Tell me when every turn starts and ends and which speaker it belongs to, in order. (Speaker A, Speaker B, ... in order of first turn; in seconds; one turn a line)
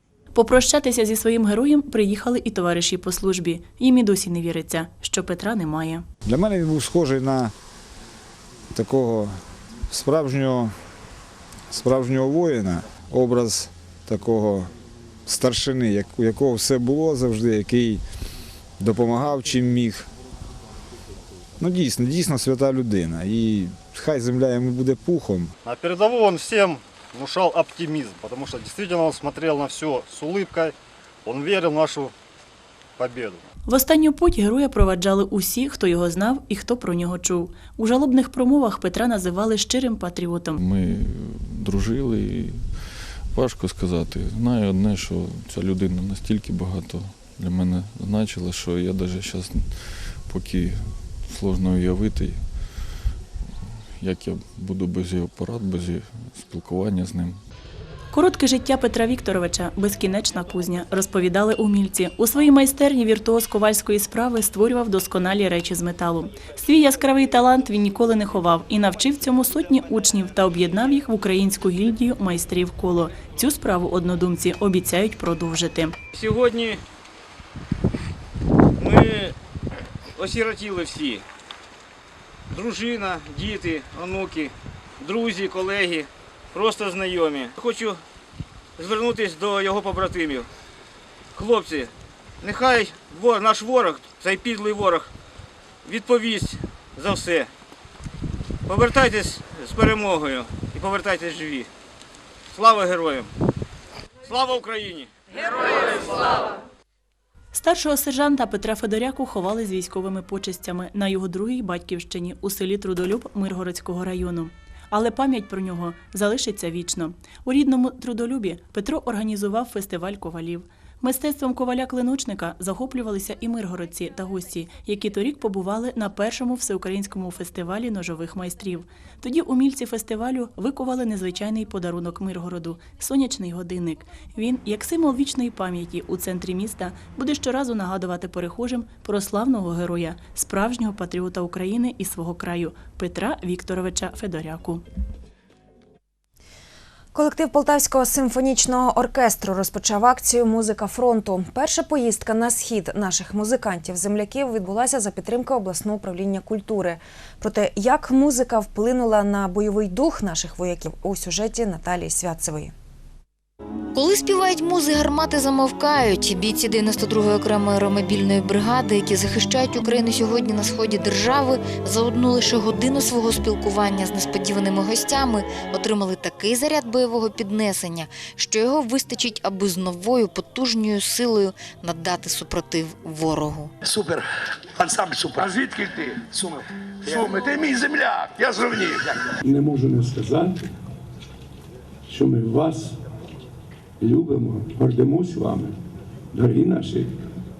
Speaker A: 0.3-6.0
Speaker B: 6.2-7.5
Speaker B: 8.7-9.4
Speaker B: 9.9-10.7
Speaker B: 11.7-14.7
Speaker B: 15.2-18.0
Speaker B: 18.8-20.1
Speaker B: 21.6-25.5
Speaker C: 25.6-30.7
Speaker C: 31.2-32.1
Speaker C: 33.0-33.4
Speaker A: 33.6-40.6
Speaker D: 40.5-53.1
Speaker D: 54.0-57.4
Speaker A: 58.1-75.9
Speaker E: 76.1-76.8
Speaker E: 78.8-79.3
Speaker E: 80.2-81.2
Speaker E: 82.5-88.0
Speaker E: 88.8-90.5
Speaker E: 91.3-95.1
Speaker E: 95.8-97.5
Speaker E: 98.7-101.7
Speaker E: 102.5-103.3
Speaker E: 104.3-105.1
Speaker A: 107.5-144.8
Speaker F: 147.1-162.7
Speaker G: 163.9-183.7
Speaker H: 183.9-184.2
Speaker H: 184.8-186.4
Speaker H: 187.1-188.4
Speaker I: 189.4-190.7
Speaker I: 192.1-193.0
Speaker I: 194.0-195.8
Speaker I: 196.3-197.2